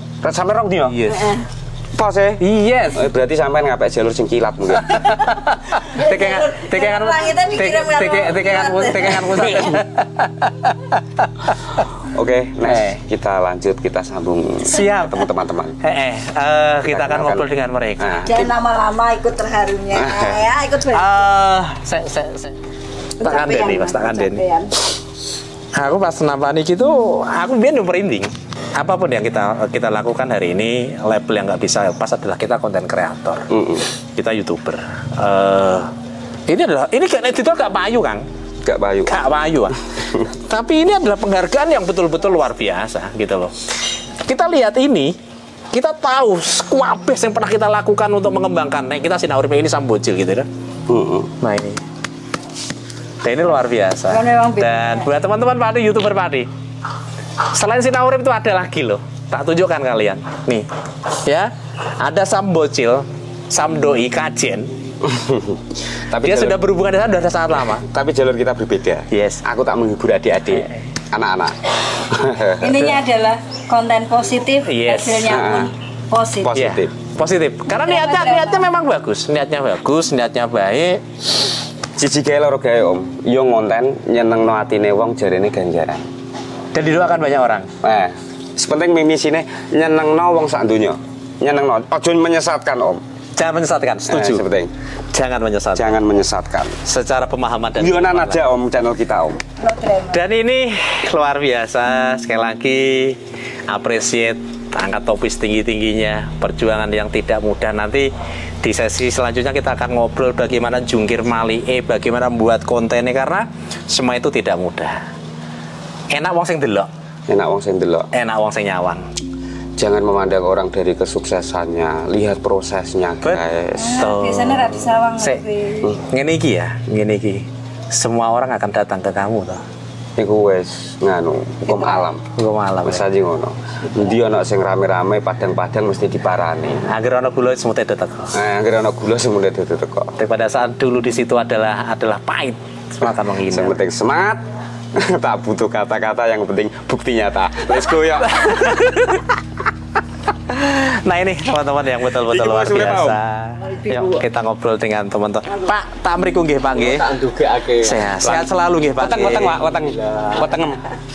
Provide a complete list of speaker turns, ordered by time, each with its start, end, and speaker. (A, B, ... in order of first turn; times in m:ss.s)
0:00.2-0:01.0 A
0:00.9-0:01.4 B
0:01.1-0:01.5 C
0:02.0-0:05.1 A
0:02.4-0:03.0 B
0:04.8-0:11.6 B
0:05.8-0:09.8 C
0:12.0-0:15.8 A
0:12.6-0:13.0 B
0:14.6-0:15.3 B
0:15.8-0:18.3 B
0:16.9-0:17.4 A
0:18.0-0:18.4 A
0:18.3-0:21.3 C
0:20.0-0:20.4 A
0:20.9-0:22.6 B
0:23.2-0:24.4 B
0:23.2-0:24.7 C
0:25.7-0:33.5 B
0:33.5-0:33.9 A
0:34.2-0:35.9 B
0:36.5-0:38.2 B
0:38.6-0:39.2 A
0:39.1-0:43.5 B
0:44.3-0:45.1 B
0:45.7-0:50.5 B
0:50.9-0:51.3 A
0:51.4-0:51.8 B
0:53.2-0:56.5 B
0:54.1-0:55.2 C
0:57.5-1:00.7 B
1:01.2-1:04.7 B
1:05.0-1:06.6 A
1:06.2-1:07.9 B
1:07.8-1:12.7 A
1:09.1-1:09.4 B
1:12.6-1:16.6 C
1:14.7-1:15.6 B
1:15.3-1:15.7 A
1:16.4-1:16.9 A
1:16.5-1:21.0 B
1:17.7-1:18.7 C
1:22.0-1:26.1 A
1:26.7-1:27.7 B
1:27.8-1:33.0 A
1:33.4-1:34.4 B
1:34.1-1:34.7 A
1:35.1-1:36.0 B
1:35.8-1:36.8 A
1:36.8-1:38.4 B
1:37.8-1:39.4 A
1:39.6-1:40.2 C
1:40.1-1:48.1 B
1:48.6-1:55.0 B
1:56.1-1:56.9 B
1:57.3-1:58.1 A
1:58.1-1:59.0 B
1:59.8-2:04.1 A
2:03.8-2:05.9 C
2:04.0-2:05.4 B
2:06.1-2:09.6 B
2:10.2-2:12.2 A
2:11.7-2:12.1 C
2:12.4-2:13.0 B
2:12.8-2:16.8 A
2:16.9-2:18.4 B
2:18.3-2:20.2 A
2:20.2-2:23.8 B
2:23.5-2:24.4 A
2:25.0-2:28.7 A
2:28.2-2:29.4 B
2:30.5-2:37.1 B
2:32.3-2:33.2 A
2:33.6-2:34.2 C
2:35.5-2:35.7 C
2:36.7-2:38.1 D
2:37.8-2:39.6 B
2:38.2-2:40.9 A
2:39.5-2:40.6 D